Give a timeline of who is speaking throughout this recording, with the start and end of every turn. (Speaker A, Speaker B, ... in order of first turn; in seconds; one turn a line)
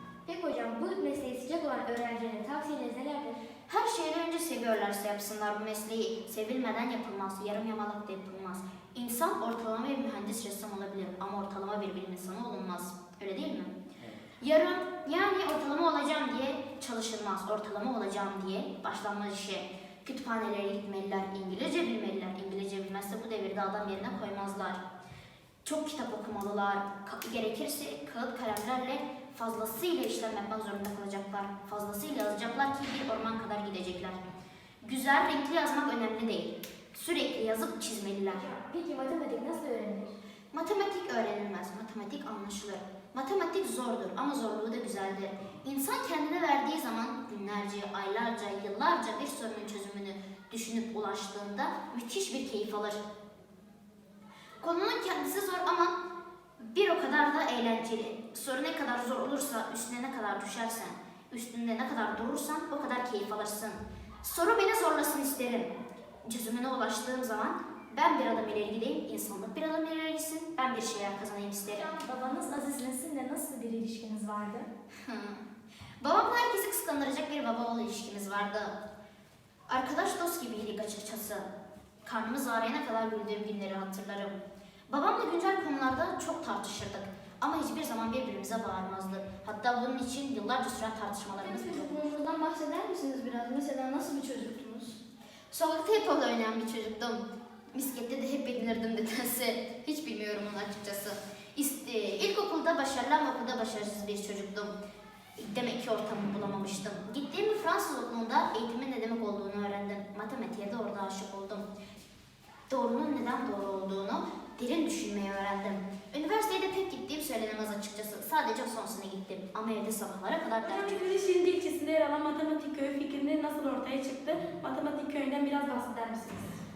Speaker A: 0.3-3.4
Speaker B: 3.7-13.8
Speaker B: 14.4-24.8
Speaker B: 25.6-34.2
Speaker B: 34.8-38.5
Speaker A: 38.3-40.1
Speaker B: 40.5-53.0
Speaker B: 54.6-55.9
Speaker B: 56.6-65.7
Speaker B: 66.2-71.9
Speaker A: 71.7-74.7
Speaker B: 75.0-75.4
Speaker B: 76.0-78.8
Speaker B: 79.7-81.5
Speaker B: 82.0-84.3
Speaker B: 84.9-92.0
Speaker A: 91.4-95.0
Speaker B: 95.5-104.7
Speaker B: 105.4-111.7
Speaker B: 112.7-121.0
Speaker C: 120.6-126.6